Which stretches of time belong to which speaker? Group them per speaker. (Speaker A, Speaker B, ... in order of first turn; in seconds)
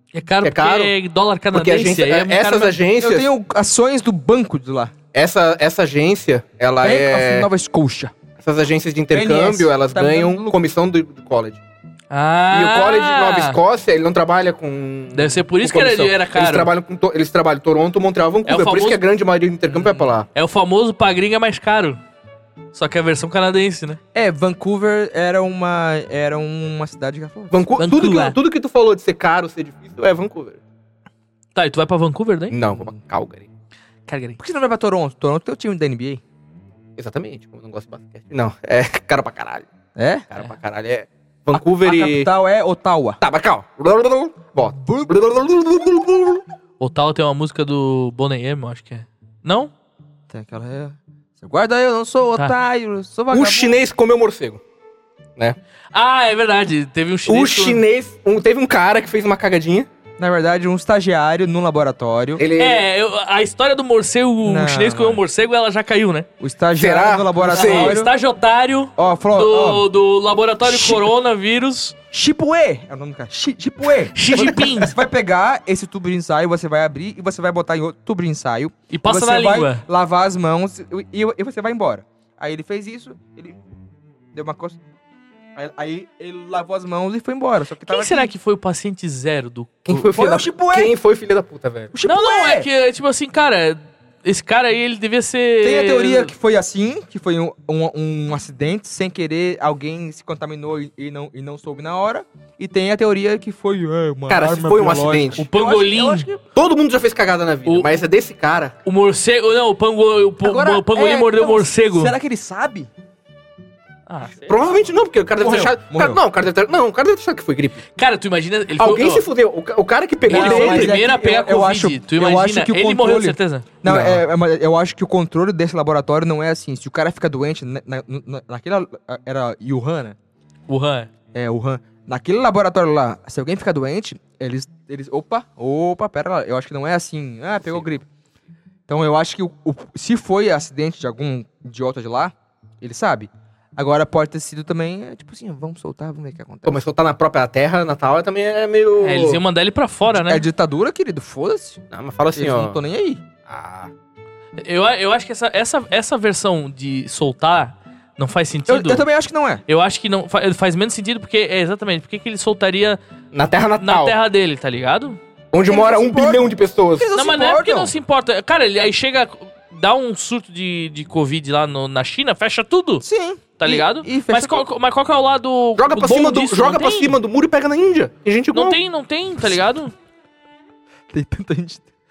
Speaker A: 0.1-2.7, 12.1-13.6, 15.1-16.7, 18.4-19.0, 20.2-22.0, 22.7-24.0, 27.8-28.4, 31.5-32.6, 34.1-34.4, 46.8-49.7, 55.9-57.8, 62.5-66.3, 67.4-72.0, 74.1-74.9, 78.9-79.8, 87.9-89.7, 92.0-96.3, 105.4-106.3, 107.7-107.9, 108.8-112.1, 114.1-114.5, 118.0-119.2, 120.3-123.7, 130.7-131.1, 149.0-150.4, 154.6-159.0, 159.7-163.0, 163.8-165.2, 167.1-173.0, 173.6-177.1, 178.5-179.9
Speaker B: 0.4-0.9, 1.5-3.3, 5.1-7.5, 8.4-11.6, 12.5-20.3, 27.5-30.6, 32.5-33.5, 37.0-39.7, 40.3-42.3, 43.2-46.4, 53.3-54.6, 57.3-59.9, 62.4-62.8, 66.8-68.0, 89.8-91.9, 104.3-105.4, 106.5-108.8, 114.5-117.8, 118.8-121.0, 123.8-124.2, 146.7-149.4, 151.9-152.8, 153.5-153.9, 163.3-164.2, 165.5-167.1, 175.8-178.8
Speaker C: 3.0-4.9, 6.8-8.1, 9.1-10.6, 24.1-27.7, 32.7-32.9, 34.4-36.2, 40.0-40.3, 41.5-43.2, 44.6-45.2, 50.3-53.8, 60.2-62.4, 64.4-65.2, 66.4-68.1, 69.0-69.9, 70.6-71.1, 72.1-83.6, 84.3-84.8, 85.5-88.3, 89.9-90.9, 91.9-92.7, 95.6-106.4, 110.4-112.9, 115.4-116.2, 120.3-130.2, 131.3-138.1, 138.9-146.8, 150.1-151.8, 152.3-153.2, 158.7-159.6, 165.7-167.9, 173.0-174.7, 181.1-181.8